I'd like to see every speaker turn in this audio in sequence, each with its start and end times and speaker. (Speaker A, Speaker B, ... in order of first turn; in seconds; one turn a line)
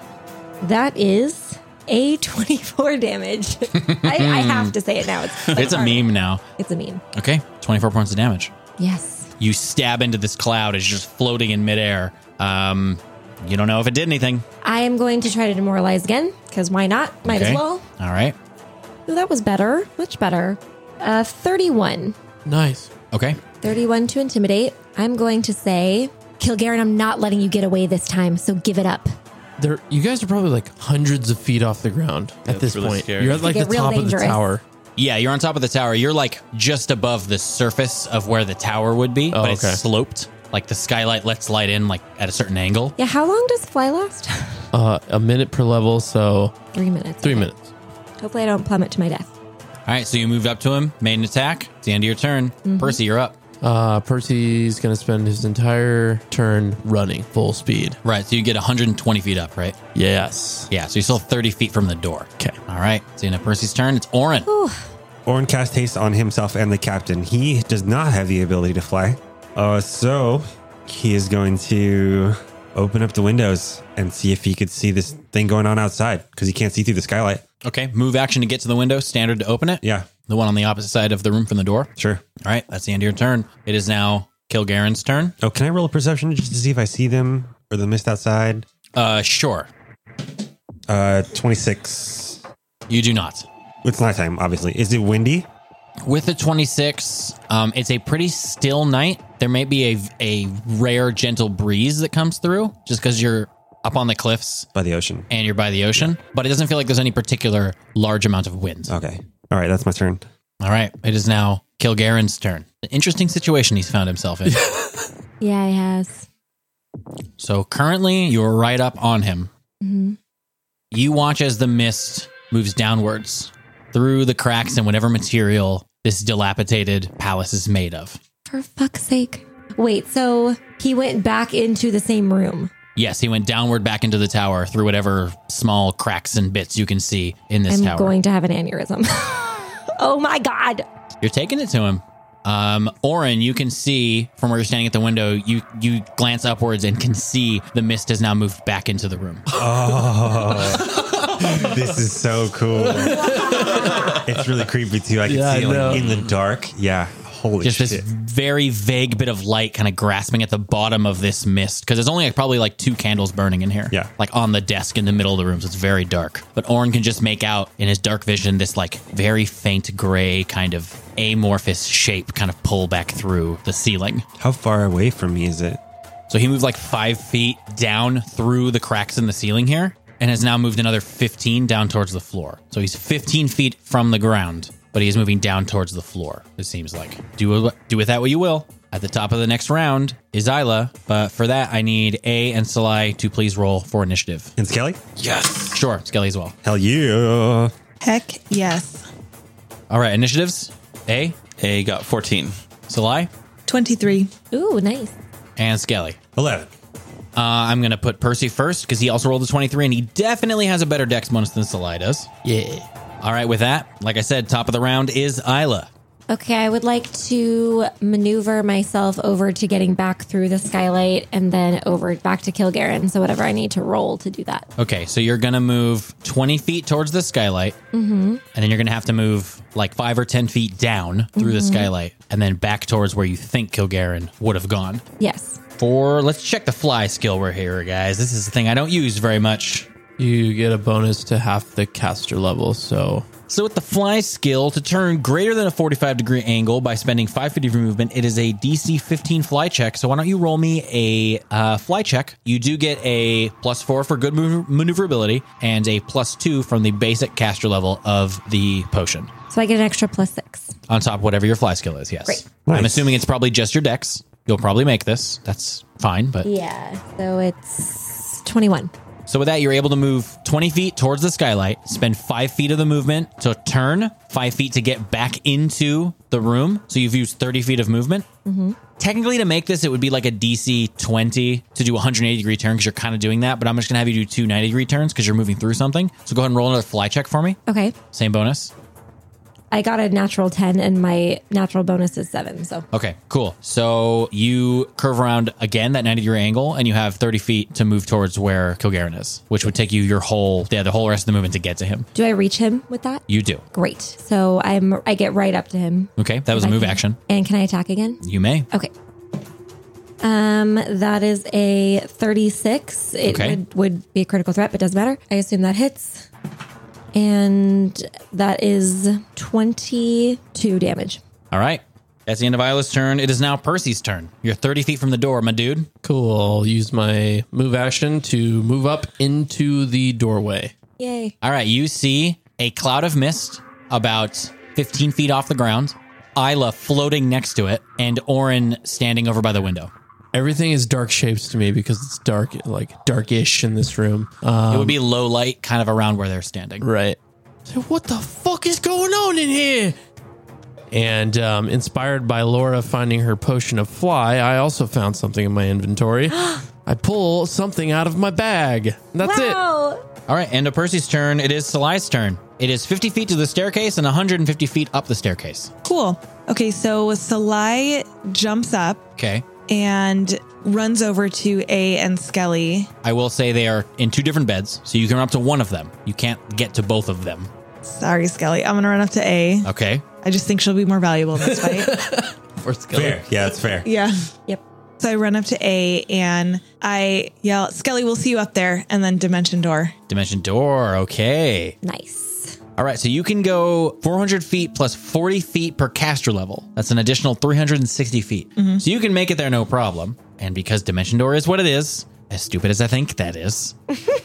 Speaker A: 0.6-7.0
Speaker B: 3.7-4.8
Speaker B: 5.4-6.4
Speaker C: 5.5-5.8
Speaker B: 7.1-8.5
Speaker A: 8.8-9.3
Speaker B: 9.4-14.4
Speaker A: 14.6-17.8
Speaker B: 17.3-18.4
Speaker A: 19.1-22.2
Speaker D: 22.5-22.9
Speaker B: 23.1-23.4
Speaker A: 23.6-29.1
Speaker D: 29.6-34.6
Speaker C: 32.5-33.6
Speaker A: 33.4-34.4
Speaker B: 35.0-43.0
Speaker D: 39.3-39.8
Speaker A: 43.0-44.7
Speaker D: 44.7-46.5
Speaker A: 46.7-47.5
Speaker D: 47.2-47.7
Speaker A: 48.2-49.3
Speaker B: 49.9-53.4
Speaker A: 52.6-53.0
Speaker D: 53.6-58.0
Speaker B: 58.0-59.8
Speaker D: 60.0-60.7
Speaker B: 60.7-64.5
Speaker A: 64.5-64.9
Speaker E: 65.3-77.4
Speaker B: 77.6-81.9
Speaker E: 79.8-80.1
Speaker E: 82.0-82.2
Speaker B: 82.4-85.3
Speaker E: 85.4-88.7
Speaker B: 89.0-89.7
Speaker E: 90.9-92.4
Speaker B: 92.9-93.5
Speaker E: 93.8-95.5
Speaker B: 96.0-104.7
Speaker E: 104.8-105.3
Speaker B: 105.3-108.9
Speaker E: 108.9-110.2
Speaker B: 110.6-114.7
Speaker A: 115.4-116.3
Speaker B: 117.4-119.5
Speaker A: 119.8-120.2
Speaker B: 120.9-128.2
Speaker A: 128.5-132.7
Speaker B: 133.0-138.2
Speaker A: 137.7-140.8
Speaker B: 141.2-149.5
Speaker D: 149.5-151.8
Speaker E: 149.5-158.1
Speaker D: 152.8-154.5
Speaker D: 155.3-156.0
Speaker B: 157.6-174.2
Speaker E: 174.4-175.8
Speaker B: 176.3-194.5
Speaker E: 194.6-195.1
Speaker C: 195.2-195.8
Speaker B: 195.7-196.5
Speaker E: 196.6-197.7
Speaker F: 198.0-199.1
Speaker B: 199.9-201.4
Speaker C: 201.6-202.5
Speaker B: 202.9-203.3
Speaker F: 203.7-204.3
Speaker A: 204.5-205.2
Speaker B: 205.6-206.2
Speaker E: 206.4-206.7
Speaker B: 207.3-212.3
Speaker D: 212.4-212.9
Speaker B: 213.2-215.9
Speaker A: 216.3-224.7
Speaker B: 224.8-227.8
Speaker A: 227.9-228.4
Speaker B: 228.5-235.0
Speaker A: 231.4-231.9
Speaker A: 235.2-235.6
Speaker B: 235.8-239.9
Speaker D: 240.2-243.3
Speaker B: 243.5-259.3
Speaker A: 259.5-260.7
Speaker B: 260.9-266.5
Speaker E: 262.7-263.2
Speaker A: 266.4-268.9
Speaker B: 269.3-278.3
Speaker A: 278.4-278.8
Speaker B: 279.0-287.6
Speaker A: 287.7-287.9
Speaker B: 288.1-288.7
Speaker A: 289.7-292.9
Speaker B: 292.9-302.1
Speaker A: 302.1-303.2
Speaker B: 303.3-303.6
Speaker A: 303.7-308.9
Speaker B: 306.2-307.2
Speaker B: 308.2-308.7
Speaker A: 310.2-316.3
Speaker B: 313.3-313.6
Speaker A: 317.1-321.2
Speaker B: 321.5-325.9
Speaker D: 326.0-330.7
Speaker A: 331.0-331.4
Speaker B: 331.4-339.9
Speaker D: 340.3-345.0
Speaker B: 344.7-346.9
Speaker D: 346.8-350.0
Speaker D: 350.9-359.6
Speaker A: 356.4-356.6
Speaker A: 359.2-360.0
Speaker B: 360.3-365.7
Speaker F: 365.9-369.0
Speaker B: 369.2-369.4
Speaker F: 369.7-372.9
Speaker B: 373.0-377.5
Speaker F: 377.9-379.7
Speaker B: 379.6-380.0
Speaker F: 380.2-382.0
Speaker D: 381.4-383.3
Speaker E: 382.9-383.9
Speaker F: 383.8-384.2
Speaker F: 385.0-389.9
Speaker B: 390.1-391.8
Speaker A: 391.8-392.6
Speaker B: 392.8-403.8
Speaker F: 398.6-398.8